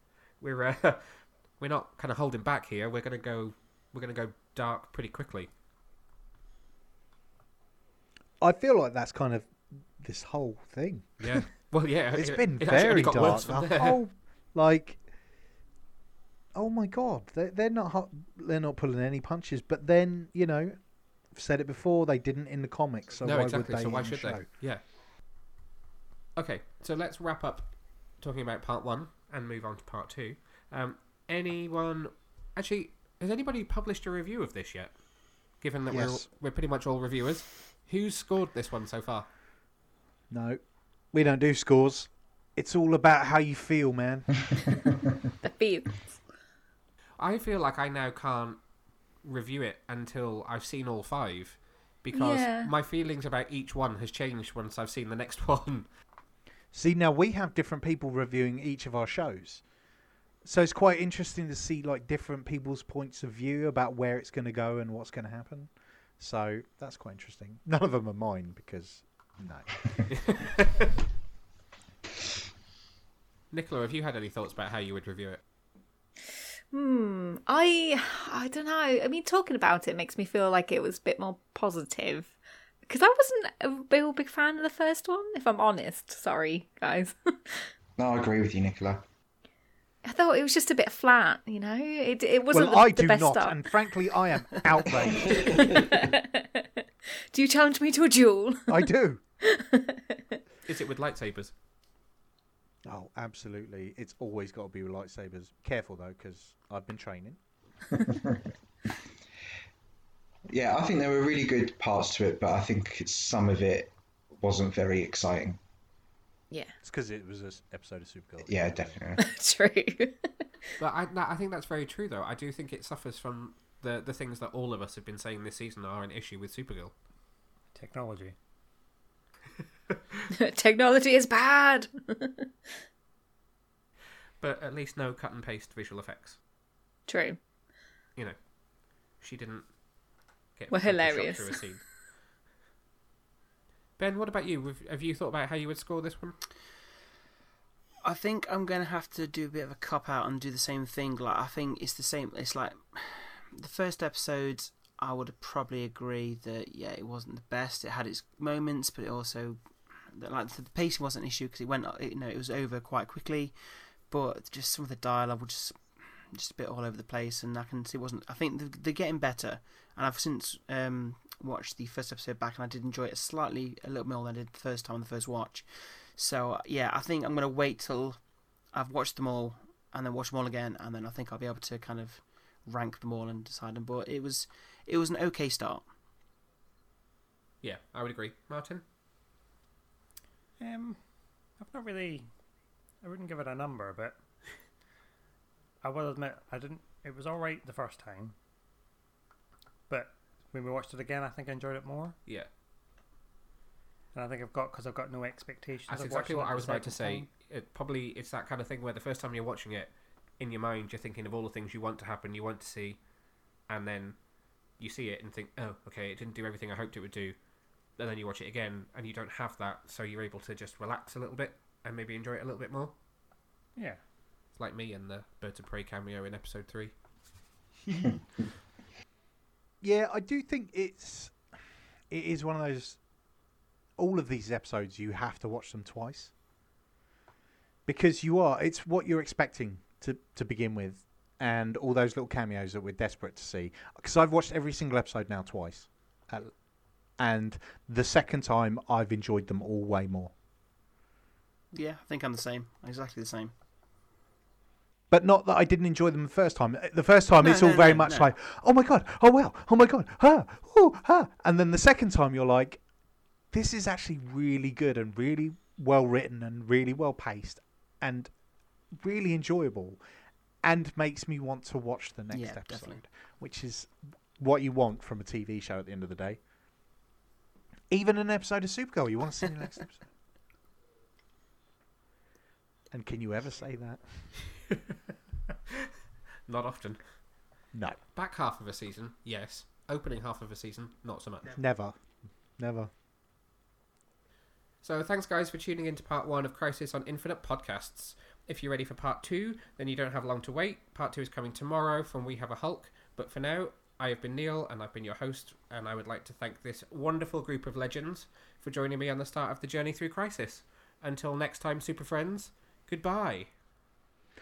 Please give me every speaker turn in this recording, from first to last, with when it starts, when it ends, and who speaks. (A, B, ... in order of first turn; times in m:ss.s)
0:00.4-0:05.5 A
0:08.4-0:11.4 B
0:11.2-0:14.0 A
0:12.1-0:15.0 B
0:16.6-0:24.5 B
0:23.2-0:24.8 A
0:26.4-0:35.0 A
0:35.6-0:39.3 A
0:35.9-0:36.2 B
0:40.3-0:44.5 B
0:45.4-0:46.2 C
0:47.2-0:48.6 A
0:49.2-0:55.9 A
0:52.1-0:52.7 C
0:56.7-0:59.7 B
1:00.4-1:09.8 B
1:10.1-1:10.5 A
1:13.5-1:15.4 A
1:16.7-1:22.4 C
1:22.9-1:27.7 C
1:28.0-1:29.0 D
1:30.0-1:33.8 C
1:32.5-1:35.8 B
1:35.3-1:35.6 D
1:35.3-1:38.9 C
1:38.7-1:39.2 B
1:39.4-1:40.4 C
1:40.7-1:41.5 A
1:42.8-1:47.4 B
1:50.5-1:55.6 D
1:56.8-1:59.0 B
1:58.4-1:59.2 D
1:59.2-2:00.4 C
2:00.8-2:06.9 A
2:07.7-2:08.4 E
2:10.3-2:12.5 C
2:14.4-2:16.4 A
2:17.1-2:17.4 C
2:19.2-2:19.7 A
2:20.6-2:21.8 A
2:20.7-2:21.6 C
2:24.0-2:26.4 A
2:28.0-2:43.5 F
2:44.1-3:05.8 F
3:07.6-3:08.8 A
3:10.6-3:11.0 E
3:11.6-3:12.3 E
3:13.0-3:14.2 E
3:15.8-3:18.4 E
3:19.9-3:22.2 E
3:24.1-3:27.3 E
3:25.9-3:33.0 A
3:33.7-3:34.2 A
3:34.8-3:37.4 A
3:38.0-3:42.9 A
3:43.8-3:44.0 E
3:44.6-3:46.9 A
3:49.8-3:51.5 B
3:52.1-3:53.1 B
3:54.0-3:56.3 B
3:57.9-4:10.3 B
4:11.7-4:13.5 F
4:15.1-4:22.8 B
4:17.4-4:18.3 F
4:23.5-4:28.4 B
4:28.9-4:30.0 B
4:30.6-4:36.4 B
4:32.3-4:33.0 F
4:37.9-4:40.1 B
4:42.9-4:44.3 B
4:46.5-4:47.3 A
4:47.7-4:48.0 B
4:48.1-4:51.6 A
4:51.6-4:52.9 B
4:54.8-5:13.5 A